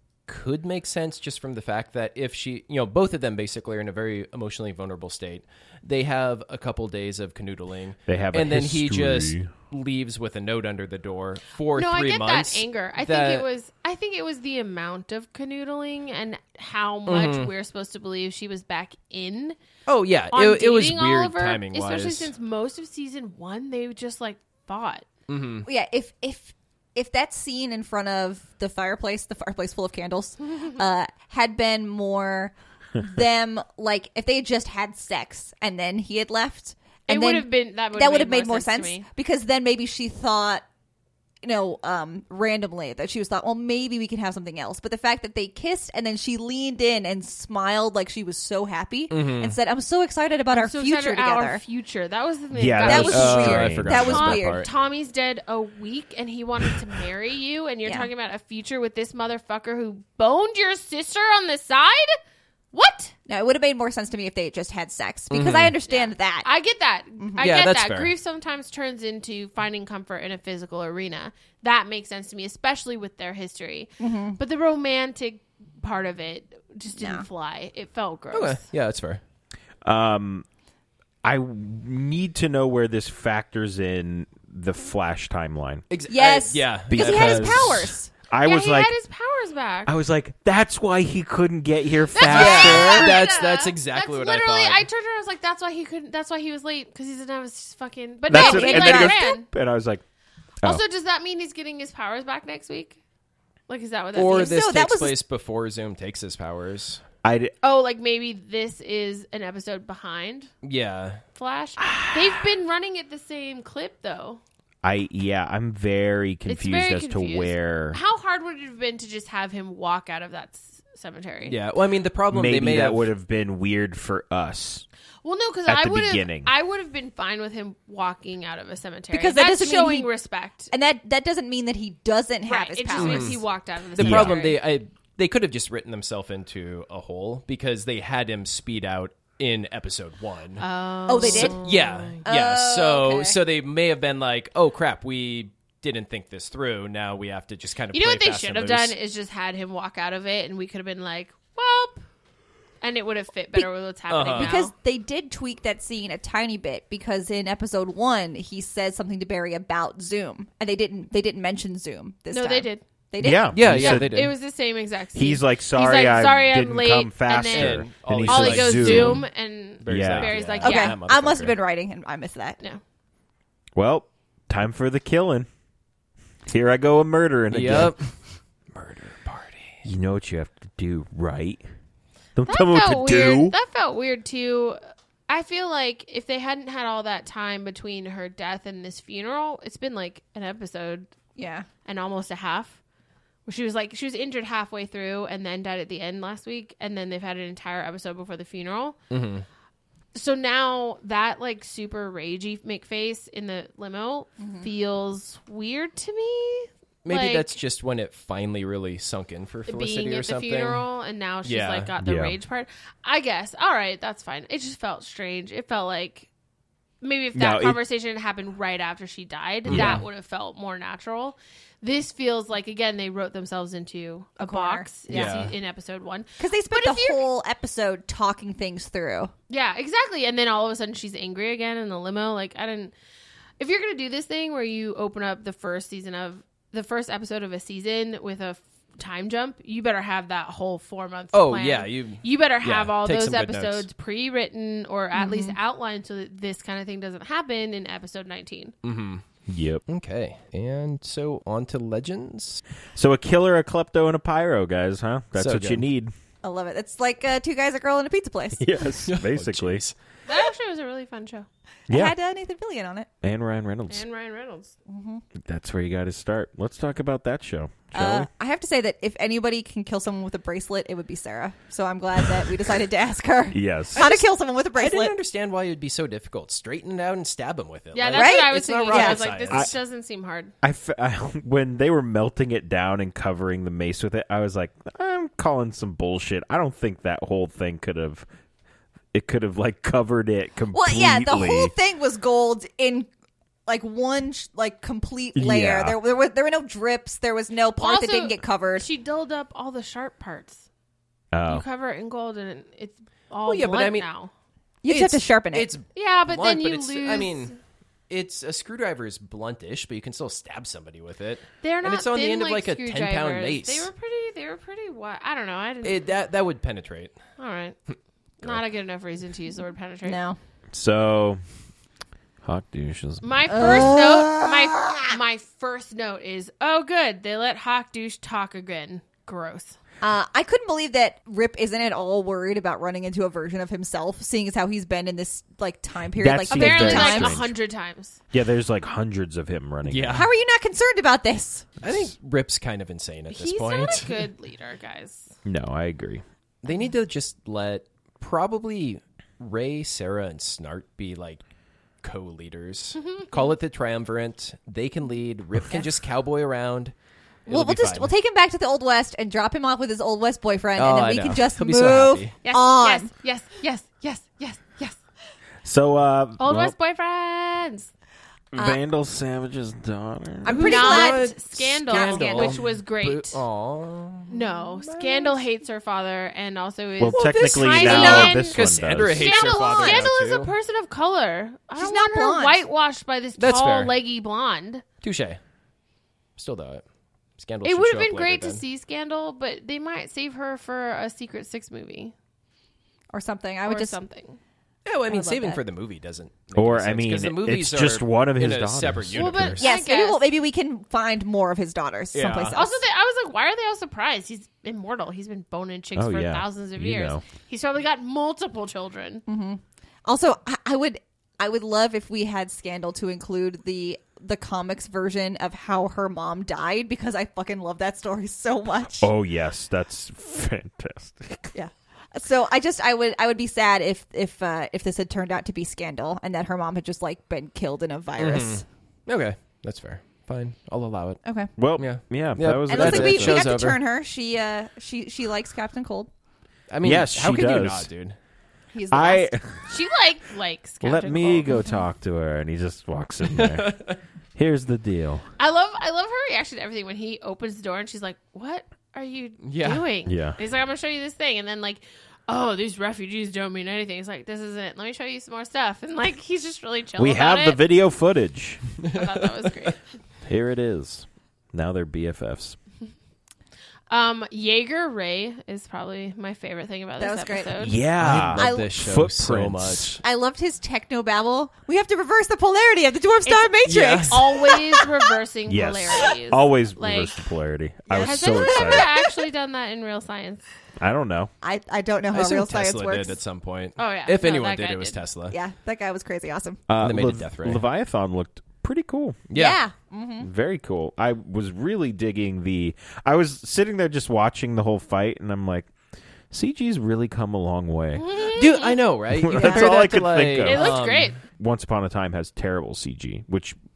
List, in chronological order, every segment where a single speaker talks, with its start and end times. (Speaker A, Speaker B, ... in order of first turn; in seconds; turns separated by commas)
Speaker A: 0.3-13.4, Speaker B: 8.1-9.5, Speaker C: 11.7-19.6, Speaker A: 17.1-17.5, Speaker A: 19.9-22.3, Speaker C: 20.3-25.1, Speaker A: 25.3-25.7, Speaker D: 25.6-40.6, Speaker C: 37.1-39.1, Speaker D: 41.4-51.6, Speaker A: 49.1-49.6, Speaker C: 50.5-62.2, Speaker B: 52.5-54.3, Speaker D: 52.8-54.6, Speaker A: 52.9-54.7, Speaker C: 62.7-63.1, Speaker D: 63.3-66.5, Speaker A: 65.3-65.8, Speaker C: 65.9-78.6, Speaker D: 67.2-67.5, Speaker A: 67.4-68.1, Speaker D: 74.0-74.4, Speaker D: 77.0-77.2, Speaker A: 78.3-79.2, Speaker B: 79.8-80.5, Speaker B: 81.2-85.8, Speaker A: 85.9-87.9, Speaker D: 86.1-88.1, Speaker B: 86.9-88.9, Speaker C: 88.4-89.9, Speaker B: 89.8-93.2, Speaker C: 92.1-99.5, Speaker A: 92.2-94.9, Speaker D: 92.5-93.1, Speaker B: 98.3-100.0, Speaker D: 98.3-99.2, Speaker C: 100.6-103.0, Speaker C: 103.7-104.6, Speaker A: 104.1-107.0, Speaker D: 104.3-105.2, Speaker B: 107.2-107.5, Speaker C: 107.6-110.5, Speaker A: 110.6-111.2, Speaker C: 111.3-114.4, Speaker B: 111.8-112.4, Speaker B: 114.8-118.0, Speaker C: 116.5-121.6, Speaker A: 121.5-123.1, Speaker B: 122.3-124.8, Speaker C: 125.2-130.7, Speaker B: 125.7-126.5, Speaker D: 129.1-130.1, Speaker D: 130.7-133.4, Speaker C: 132.4-134.6, Speaker A: 132.9-133.4, Speaker A: 134.0-148.9, Speaker B: 134.0-134.4, Speaker C: 140.6-142.2, Speaker D: 141.1-141.6, Speaker D: 142.2-143.4, Speaker C: 147.9-152.0, Speaker C: 152.8-154.7, Speaker A: 154.1-154.6, Speaker D: 154.3-163.6, Speaker C: 162.3-162.8, Speaker B: 163.2-164.2, Speaker A: 163.5-164.3, Speaker C: 163.7-170.9, Speaker B: 165.1-169.2, Speaker A: 167.5-169.3, Speaker A: 169.8-171.6, Speaker B: 169.8-170.3, Speaker D: 170.6-172.6, Speaker B: 173.7-175.5, Speaker B: 176.5-177.9, Speaker A: 177.5-178.1, Speaker A: 178.7-179.8, Speaker B: 179.8-181.6, Speaker B: 182.3-183.6, Speaker C: 182.5-191.1, Speaker D: 191.3-191.7, Speaker C: 191.8-192.8, Speaker C: 193.4-199.0, Speaker A: 199.1-199.4, Speaker C: 200.1-207.5, Speaker D: 204.4-204.7, Speaker A: 207.0-210.8, Speaker C: 209.7-216.3, Speaker A: 211.4-211.9, Speaker B: 212.0-212.4, Speaker C: 217.0-227.2, Speaker B: 217.3-217.8, Speaker A: 219.7-220.0, Speaker B: 219.7-220.0, Speaker D: 224.4-225.3, Speaker A: 225.1-225.5, Speaker D: 226.4-229.3, Speaker C: 229.5-232.9, Speaker C: 233.6-248.7, Speaker A: 241.3-243.9, Speaker D: 245.1-245.6, Speaker A: 248.8-249.2, Speaker B: 249.5-249.8, Speaker A: 249.9-252.6, Speaker B: 252.9-256.1, Speaker A: 255.3-255.8, Speaker D: 256.4-258.6, Speaker B: 258.6-259.8, Speaker A: 259.1-259.9, Speaker C: 260.2-261.5, Speaker B: 261.9-262.1, Speaker D: 261.9-263.1, Speaker B: 263.2-264.0, Speaker C: 263.9-264.8, Speaker D: 264.9-265.2, Speaker B: 265.4-268.3, Speaker D: 267.9-275.1, Speaker B: 273.5-274.1, Speaker A: 274.0-279.7, Speaker C: 277.9-280.5, Speaker D: 278.1-279.3, Speaker B: 280.6-288.2, Speaker B: 289.1-291.7, Speaker D: 290.7-293.1, Speaker D: 293.7-298.9, Speaker B: 295.3-296.0, Speaker C: 297.8-300.7, Speaker B: 301.3-301.6, Speaker C: 301.5-304.3, Speaker A: 303.4-304.1, Speaker D: 304.8-305.7, Speaker A: 304.9-307.5, Speaker C: 305.9-307.5, Speaker A: 308.1-313.9, Speaker C: 311.6-316.1, Speaker A: 315.8-317.2, Speaker C: 317.4-317.8, Speaker A: 317.9-318.6, Speaker C: 318.4-320.2, Speaker D: 320.0-320.4, Speaker B: 320.7-321.4, Speaker B: 322.4-324.0, Speaker C: 323.2-329.8, Speaker D: 323.5-325.2, Speaker D: 330.0-337.4, Speaker B: 336.1-337.5, Speaker C: 336.5-338.2, Speaker B: 338.3-340.3, Speaker A: 339.8-340.3, Speaker D: 340.1-341.7, Speaker A: 341.8-344.3, Speaker C: 343.3-345.3, Speaker B: 345.4-346.2, Speaker A: 346.6-351.4, Speaker A: 352.0-356.9, Speaker C: 352.9-353.5, Speaker A: 357.4-358.1, Speaker D: 357.5-363.1, Speaker A: 360.8-362.3, Speaker C: 362.4-365.0, Speaker B: 365.6-366.7, Speaker C: 366.4-367.9, Speaker B: 368.5-370.8, Speaker D: 370.4-371.3, Speaker A: 370.5-375.4, Speaker C: 370.6-373.4, Speaker D: 371.9-372.6, Speaker C: 374.3-378.6, Speaker B: 377.0-379.4, Speaker A: 377.1-380.5, Speaker D: 377.8-378.4, Speaker C: 379.1-384.8, Speaker D: 379.6-380.1, Speaker D: 381.8-382.6, Speaker A: 383.4-383.9, Speaker A: 385.0-385.4, Speaker A: 386.4-386.8, Speaker A: 387.4-388.6, Speaker C: 387.6-392.1, Speaker D: 393.1-394.0, Speaker C: 393.6-394.4, Speaker A: 394.8-399.6, Speaker D: 395.1-395.6, Speaker B: 396.6-399.6, Speaker C: 399.1-400.2, Speaker D: 399.6-402.8, Speaker A: 402.1-402.6, Speaker C: 402.5-409.2, Speaker B: 405.9-407.2, Speaker D: 409.3-419.1, Speaker B: 419.0-421.5, Speaker D: 421.5-428.6, Speaker A: 428.2-431.2, Speaker D: 431.2-431.5, Speaker B: 431.6-433.6, Speaker A: 431.7-433.8, Speaker D: 432.7-436.1, Speaker A: 436.7-438.1, Speaker B: 436.8-437.9, Speaker D: 438.7-439.3, Speaker B: 438.9-439.7, Speaker C: 439.7-441.5, Speaker B: 440.8-443.8, Speaker A: 443.2-444.0, Speaker B: 444.4-445.3, Speaker C: 445.4-457.6, Speaker A: 449.4-449.8, Speaker B: 450.0-450.4, Speaker B: 457.0-458.6, Speaker A: 458.8-459.7, Speaker C: 458.9-459.8, Speaker B: 460.2-462.6, Speaker C: 463.9-467.8, Speaker D: 467.0-468.8, Speaker B: 467.6-470.0, Speaker A: 468.0-470.0, Speaker D: 470.0-474.9, Speaker C: 473.2-477.2, Speaker A: 473.6-474.5, Speaker B: 475.5-478.9, Speaker D: 477.9-479.0, Speaker C: 477.9-480.4, Speaker B: 480.8-481.3, Speaker D: 481.4-483.2, Speaker A: 482.1-485.4, Speaker C: 483.8-485.0, Speaker D: 485.3-486.6, Speaker B: 486.7-489.2, Speaker A: 486.8-487.6, Speaker A: 489.3-489.6, Speaker D: 489.3-490.3, Speaker B: 490.2-495.7, Speaker B: 496.3-498.1, Speaker C: 497.9-498.8, Speaker A: 498.3-501.2, Speaker B: 499.1-500.8, Speaker D: 499.3-499.7, Speaker C: 500.4-501.2, Speaker B: 501.3-503.6